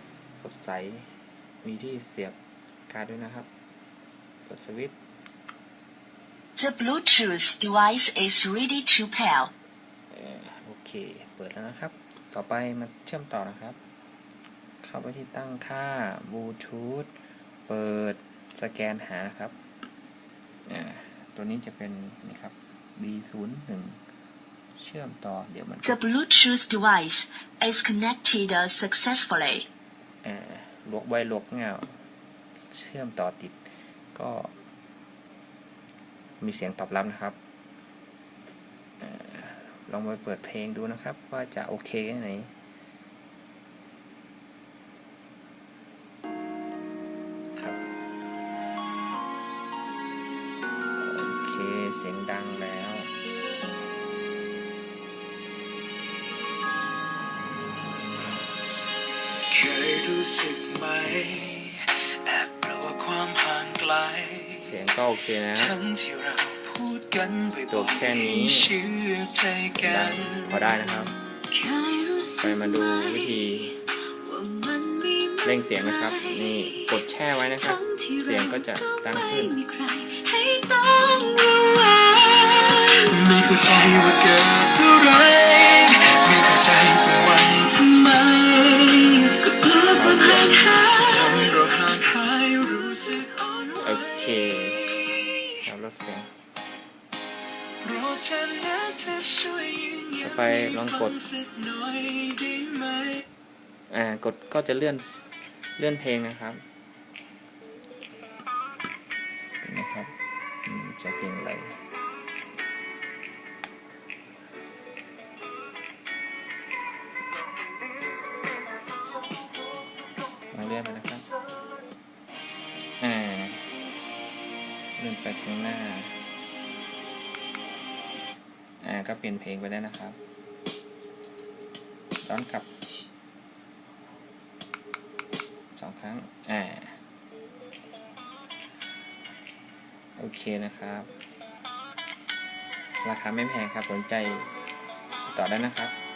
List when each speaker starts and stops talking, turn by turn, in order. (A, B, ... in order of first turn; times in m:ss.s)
0:00.4-0:02.4 A
0:02.9-0:03.5 A
0:04.5-0:05.0 A
0:06.6-0:09.5 B
0:10.1-0:13.8 A
0:14.8-0:19.6 A
0:20.7-0:24.0 A
0:24.8-0:26.0 A
0:25.8-0:29.7 B
0:30.2-0:32.0 A
0:32.7-0:34.6 A
0:36.4-0:37.4 A
0:39.0-0:42.5 A
0:47.6-0:47.8 A
0:51.0-0:53.1 A
0:59.5-1:04.8 C
1:04.6-1:05.8 A
1:05.5-1:10.6 C
1:07.7-1:08.8 A
1:09.7-1:11.2 A
1:11.5-1:13.2 B
1:12.4-1:13.8 A
1:14.2-1:16.9 B
1:15.4-1:19.6 A
1:17.6-1:22.9 B
1:23.0-1:35.1 C
1:29.6-1:31.5 B
1:29.9-1:30.6 A
1:33.8-1:35.0 A
1:35.6-1:36.3 A
1:37.8-1:43.2 C
1:40.2-1:41.2 A
1:43.9-1:46.6 A
1:49.6-1:51.8 A
2:00.5-2:01.2 A
2:03.0-2:03.7 A
2:05.0-2:06.2 A
2:08.8-2:10.2 A
2:12.2-2:12.7 A
2:15.8-2:17.0 A
2:20.2-2:21.1 A
2:23.0-2:24.5 A
2:25.3-2:26.0 A